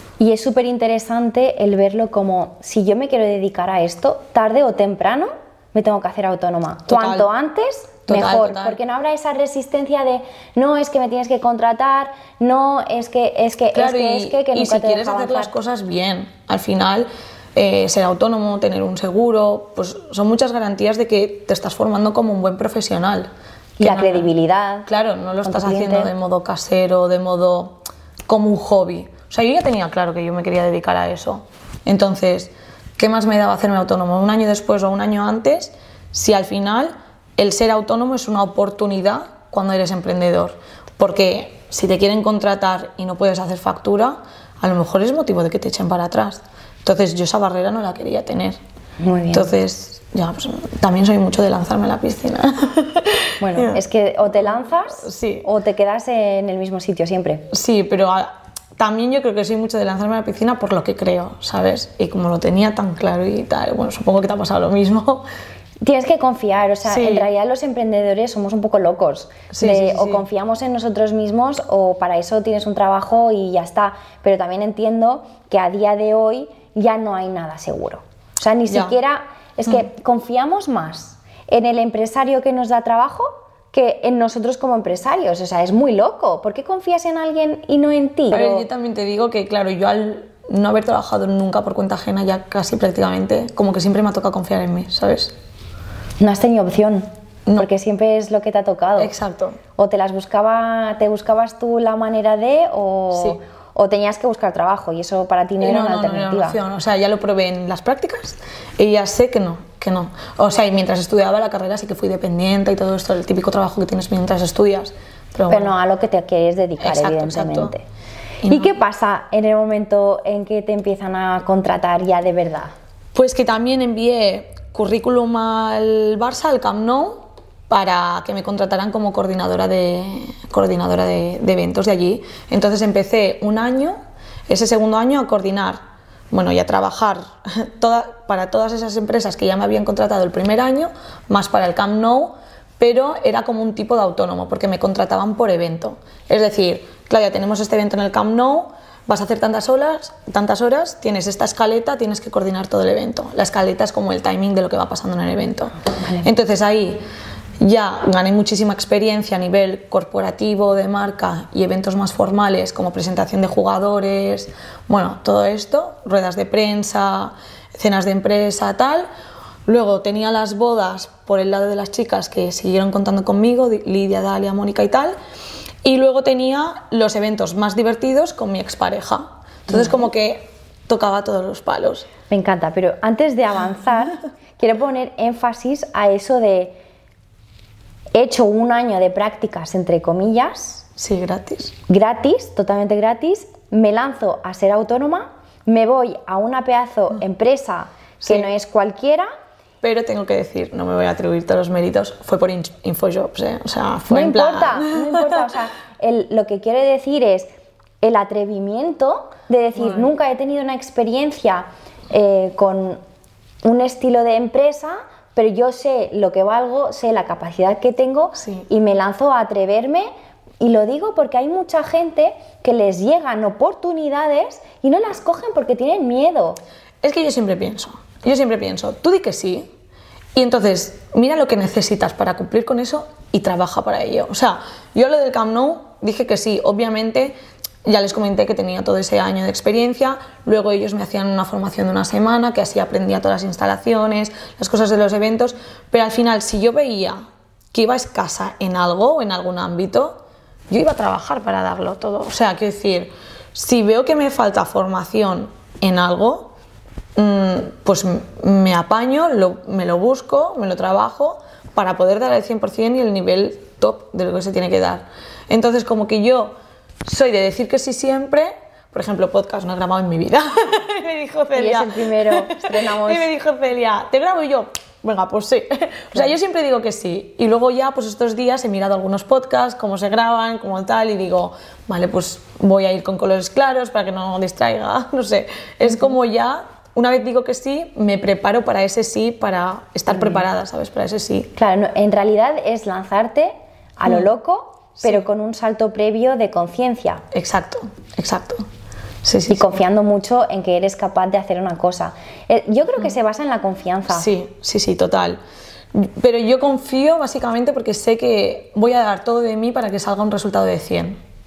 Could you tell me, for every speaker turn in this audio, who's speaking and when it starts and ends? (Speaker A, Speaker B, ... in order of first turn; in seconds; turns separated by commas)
Speaker A: 0.2-15.5, Speaker B: 6.9-7.3, Speaker B: 8.1-8.8, Speaker B: 13.7-24.3, Speaker A: 23.8-24.9, Speaker B: 24.9-48.6, Speaker A: 25.4-26.1, Speaker A: 49.0-49.5, Speaker B: 49.3-55.5, Speaker A: 53.4-57.5, Speaker B: 57.5-65.2, Speaker A: 65.8-88.7, Speaker B: 66.9-67.3, Speaker B: 69.5-70.2, Speaker B: 78.7-79.0, Speaker B: 88.3-95.3, Speaker A: 96.2-99.1, Speaker B: 99.0-99.6, Speaker A: 99.8-106.6, Speaker B: 103.1-103.4, Speaker B: 105.6-115.7, Speaker A: 115.5-117.8, Speaker B: 116.8-117.7, Speaker B: 118.4-118.8, Speaker A: 118.5-122.7, Speaker B: 123.1-134.0, Speaker B: 134.5-157.0, Speaker A: 155.9-156.3, Speaker B: 157.6-169.1, Speaker B: 169.7-175.2, Speaker B: 175.8-182.1, Speaker A: 182.3-186.8, Speaker A: 188.2-190.9, Speaker B: 191.0-191.7, Speaker A: 191.9-199.3, Speaker B: 198.2-198.5, Speaker B: 199.8-205.4, Speaker A: 204.1-207.5, Speaker A: 208.0-213.0, Speaker B: 209.8-210.1, Speaker A: 213.6-220.1, Speaker B: 218.4-218.6, Speaker A: 220.6-226.6, Speaker B: 227.0-229.7, Speaker B: 230.3-247.2, Speaker B: 247.7-250.2, Speaker B: 250.7-256.5, Speaker B: 257.2-266.5, Speaker B: 267.1-291.5, Speaker A: 271.6-273.3, Speaker A: 290.1-290.4, Speaker A: 291.6-297.2, Speaker B: 297.3-298.7, Speaker B: 299.2-299.8, Speaker A: 299.5-304.3, Speaker B: 304.1-305.4, Speaker B: 305.9-311.2